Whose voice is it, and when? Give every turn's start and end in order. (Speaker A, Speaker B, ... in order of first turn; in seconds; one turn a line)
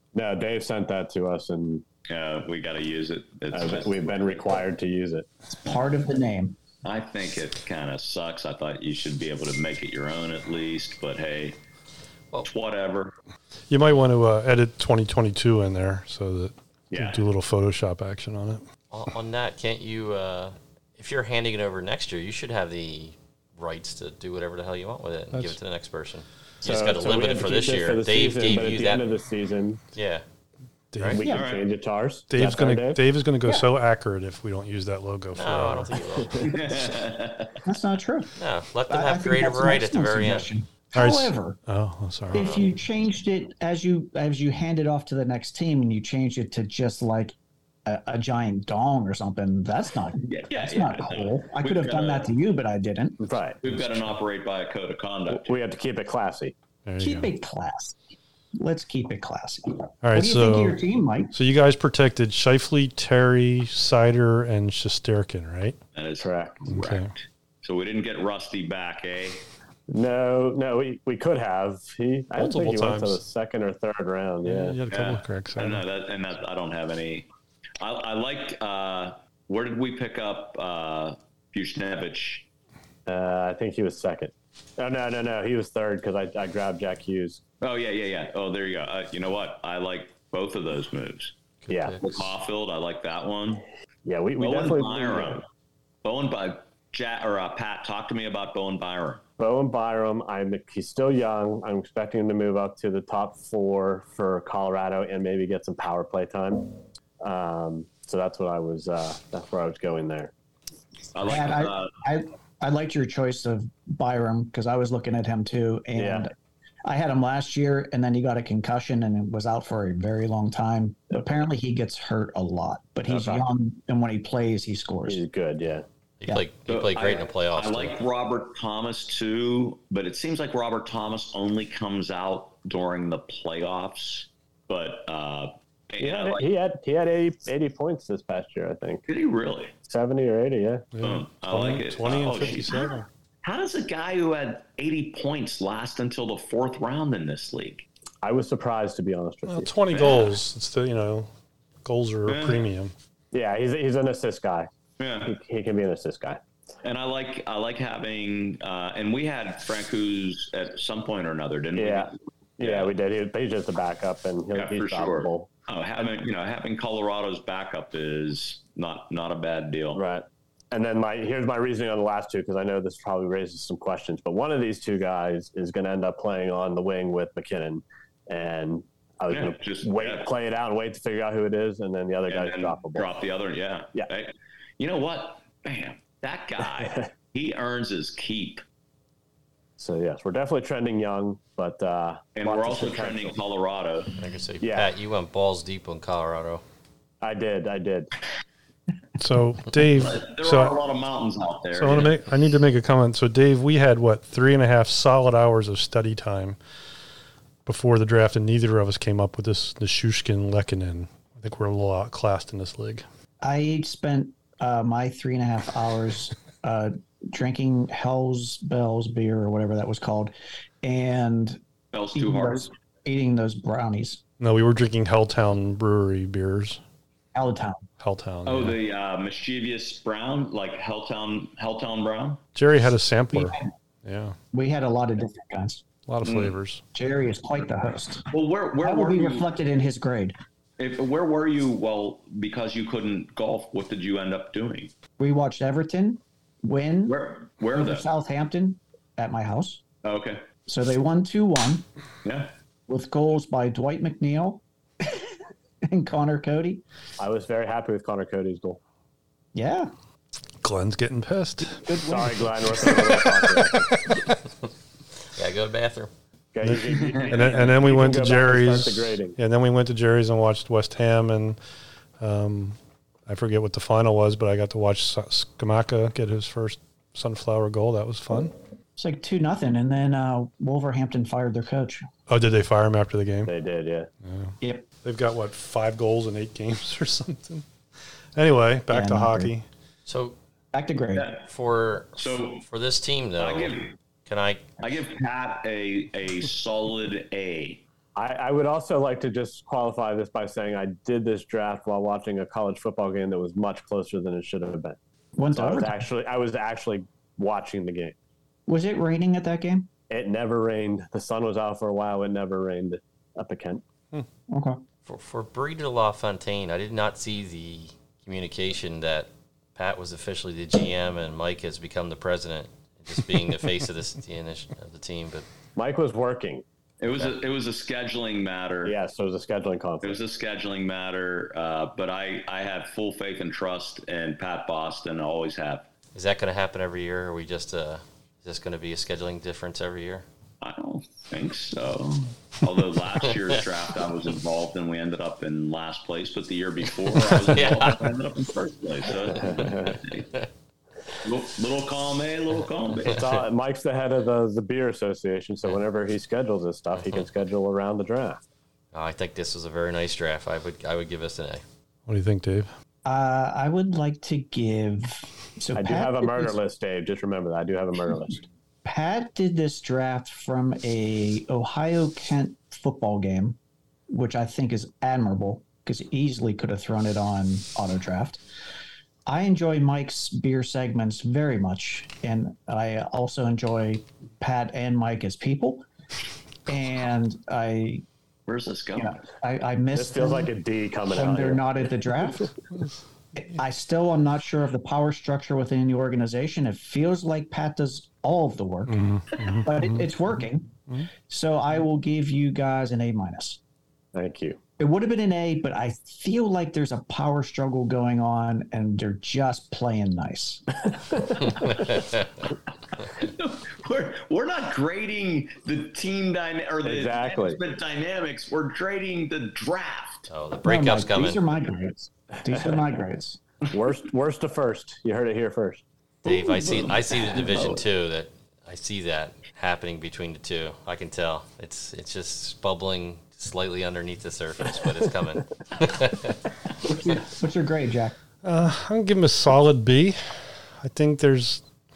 Speaker A: 0.1-1.8
Speaker B: 2.1-4.4
Speaker A: 3.5-5.3
Speaker C: 5.5-6.6
Speaker B: 6.8-11.6
Speaker B: 12.4-13.1
Speaker D: 13.7-18.6
Speaker B: 16.9-17.3
Speaker E: 18.9-29.2
Speaker D: 25.3-25.6
Speaker A: 26.6-29.8
Speaker E: 29.9-30.2
Speaker D: 30.9-31.2
Speaker A: 31.1-33.0
Speaker C: 31.2-31.5
Speaker B: 31.3-31.7
Speaker D: 32.3-35.9
Speaker E: 35.3-36.9
Speaker A: 36.2-36.6
Speaker B: 36.4-37.6
Speaker C: 37.6-38.3
Speaker E: 38.4-40.5
Speaker C: 38.9-41.6
Speaker D: 41.0-42.6
Speaker C: 42.3-47.4
Speaker E: 42.4-42.7
Speaker C: 47.9-53.2
Speaker B: 50.2-52.3
Speaker A: 53.2-53.6
Speaker B: 53.6-55.6
Speaker A: 55.3-56.5
Speaker D: 56.9-57.3
Speaker C: 57.0-58.0
Speaker C: 58.6-61.3
Speaker D: 60.0-65.8
Speaker B: 66.0-69.5
Speaker A: 66.2-66.6
Speaker D: 66.7-67.1
Speaker A: 69.9-74.8
Speaker D: 72.4-73.2
Speaker D: 74.4-75.8
Speaker B: 74.9-77.3
Speaker B: 77.8-82.5
Speaker A: 83.1-87.4
Speaker B: 87.6-91.3
Speaker E: 91.7-92.0
Speaker A: 91.7-92.1
Speaker B: 92.0-93.6
Speaker A: 94.0-95.4
Speaker B: 94.4-95.4
Speaker B: 96.0-99.2
Speaker A: 99.4-110.3
Speaker B: 111.1-112.0
Speaker C: 111.2-116.3
Speaker A: 116.0-116.3
Speaker C: 116.8-125.2
Speaker A: 123.1-123.5
Speaker A: 125.1-125.9
Speaker E: 126.2-128.0
Speaker B: 126.7-136.5
Speaker A: 136.0-139.0
Speaker B: 139.1-139.7
Speaker A: 139.9-140.9
Speaker D: 140.9-143.1
Speaker B: 141.0-147.9
Speaker A: 148.2-149.7
Speaker D: 149.5-151.3
Speaker B: 149.9-150.4
Speaker D: 151.8-152.9
Speaker B: 152.3-152.7
Speaker A: 153.3-154.7
Speaker B: 155.0-155.3
Speaker A: 155.2-156.4
Speaker B: 156.8-162.9
Speaker A: 161.8-165.5
Speaker B: 164.5-170.0
Speaker A: 169.9-183.1
Speaker B: 179.3-180.3
Speaker B: 182.3-188.6
Speaker A: 186.8-187.1
Speaker A: 189.8-193.4
Speaker B: 192.4-194.1
Speaker E: 194.2-196.6
Speaker A: 194.6-194.9
Speaker A: 197.2-198.1
Speaker D: 199.2-200.8
Speaker B: 200.0-202.2
Speaker D: 201.7-206.6
Speaker D: 207.7-213.1
Speaker C: 213.4-221.6
Speaker B: 221.9-222.7
Speaker C: 222.2-224.2
Speaker D: 224.4-226.8
Speaker C: 227.3-227.8
Speaker D: 228.0-228.8
Speaker B: 228.5-232.4
Speaker D: 232.6-234.4
Speaker C: 233.3-233.7
Speaker C: 234.5-235.8
Speaker D: 236.1-236.8
Speaker B: 236.2-236.6
Speaker C: 236.9-238.3
Speaker B: 238.3-239.5
Speaker C: 238.8-240.4
Speaker B: 240.8-244.9
Speaker C: 245.2-247.2
Speaker B: 247.1-248.1
Speaker C: 247.7-249.8
Speaker B: 250.0-250.4
Speaker C: 250.7-251.9
Speaker B: 252.2-252.5
Speaker C: 252.9-255.3
Speaker C: 255.8-256.8
Speaker A: 257.2-258.8
Speaker C: 259.5-259.9
Speaker D: 260.6-261.8
Speaker C: 261.8-263.0
Speaker A: 262.0-263.9
Speaker D: 263.9-264.2
Speaker E: 265.4-266.1
Speaker A: 266.5-269.4
Speaker D: 266.6-271.6
Speaker D: 272.2-278.5
Speaker C: 279.0-282.1
Speaker D: 282.3-283.5
Speaker A: 283.5-284.1
Speaker D: 284.2-287.6
Speaker C: 284.6-284.9
Speaker D: 288.4-289.7
Speaker C: 288.9-289.5
Speaker E: 290.1-290.4
Speaker C: 290.7-291.4
Speaker B: 291.1-291.5
Speaker E: 291.5-294.8
Speaker B: 292.2-292.7
Speaker B: 293.4-293.9
Speaker B: 294.8-297.8
Speaker A: 298.1-305.0
Speaker C: 305.4-306.0
Speaker A: 305.5-308.2
Speaker C: 308.7-309.9
Speaker A: 310.1-313.8
Speaker C: 314.5-314.8
Speaker E: 315.1-325.5
Speaker A: 325.8-326.6
Speaker B: 327.0-328.9
Speaker A: 328.9-330.2
Speaker B: 330.0-335.9
Speaker E: 336.1-340.3
Speaker B: 340.6-350.3
Speaker E: 343.2-343.6
Speaker E: 347.1-348.1
Speaker A: 349.3-350.0
Speaker B: 351.2-353.2
Speaker A: 353.1-358.4
Speaker E: 357.0-357.3
Speaker E: 358.9-361.6
Speaker D: 362.1-362.7
Speaker C: 363.1-366.6
Speaker A: 365.7-368.5
Speaker C: 368.8-373.6
Speaker C: 374.1-378.4
Speaker C: 379.3-385.9
Speaker C: 386.7-388.0
Speaker B: 388.5-389.3
Speaker C: 389.0-390.5
Speaker A: 389.9-392.1
Speaker C: 391.1-392.6
Speaker C: 393.4-399.0
Speaker D: 398.9-400.1
Speaker C: 399.6-400.8
Speaker C: 401.3-403.6
Speaker A: 404.1-404.6
Speaker C: 404.8-410.6
Speaker B: 413.0-420.3
Speaker A: 416.8-417.6
Speaker E: 420.3-421.4
Speaker C: 420.6-423.4
Speaker A: 423.7-425.8
Speaker B: 426.2-427.9
Speaker E: 426.2-436.4
Speaker C: 436.9-438.2
Speaker D: 438.4-441.6